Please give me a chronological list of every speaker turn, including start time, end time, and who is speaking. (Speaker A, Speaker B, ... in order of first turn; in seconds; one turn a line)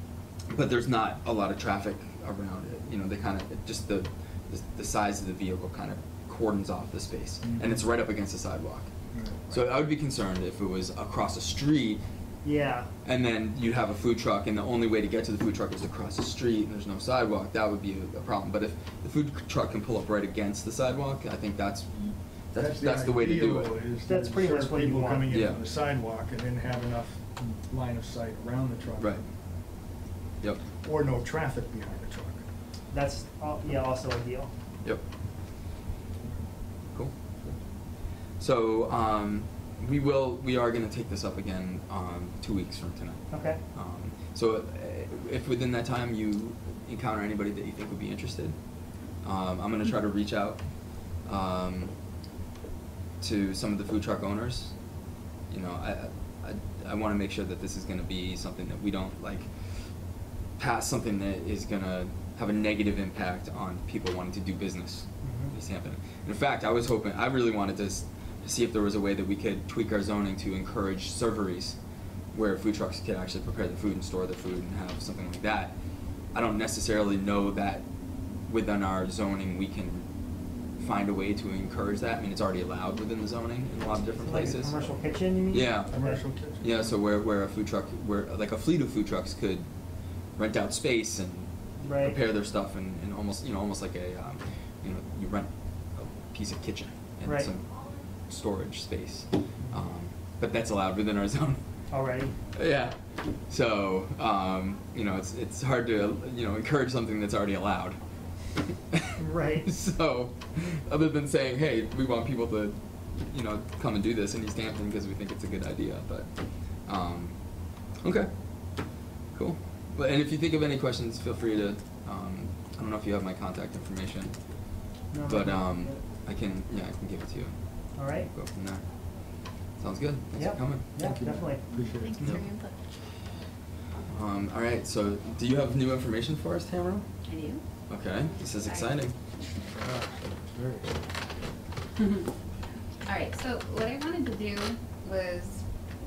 Speaker A: 0.5-8.9
Speaker B: 7.4-7.8
Speaker B: 9.1-9.6
Speaker A: 9.5-12.0
Speaker C: 12.4-12.9
Speaker A: 13.0-23.7
Speaker B: 22.6-29.2
Speaker C: 24.0-25.3
Speaker A: 25.3-25.6
Speaker B: 30.8-32.4
Speaker C: 32.9-34.5
Speaker B: 36.2-36.5
Speaker A: 38.4-48.5
Speaker C: 43.3-43.6
Speaker A: 49.2-50.6
Speaker A: 51.2-51.9
Speaker A: 53.2-54.7
Speaker A: 55.5-59.5
Speaker A: 60.6-71.8
Speaker C: 65.2-65.5
Speaker A: 72.3-75.8
Speaker A: 76.3-77.8
Speaker A: 78.5-80.1
Speaker A: 80.8-84.8
Speaker C: 84.2-86.2
Speaker A: 85.5-85.9
Speaker B: 85.9-87.0
Speaker A: 86.6-89.7
Speaker A: 90.3-97.7
Speaker C: 91.8-92.2
Speaker A: 98.3-101.6
Speaker C: 101.9-102.3
Speaker A: 102.5-108.0
Speaker A: 108.9-112.8
Speaker C: 109.2-109.7
Speaker A: 113.3-116.3
Speaker A: 116.8-117.3
Speaker A: 118.0-118.3
Speaker A: 119.3-124.3
Speaker C: 125.1-126.0
Speaker A: 125.2-127.5
Speaker C: 128.0-128.3
Speaker A: 128.1-128.8
Speaker A: 129.8-130.8
Speaker C: 130.3-131.6
Speaker B: 131.0-132.4
Speaker D: 131.7-132.9
Speaker A: 134.1-137.0
Speaker D: 137.2-137.6
Speaker A: 137.9-139.1
Speaker D: 138.6-138.9
Speaker B: 139.8-141.0
Speaker D: 143.0-145.6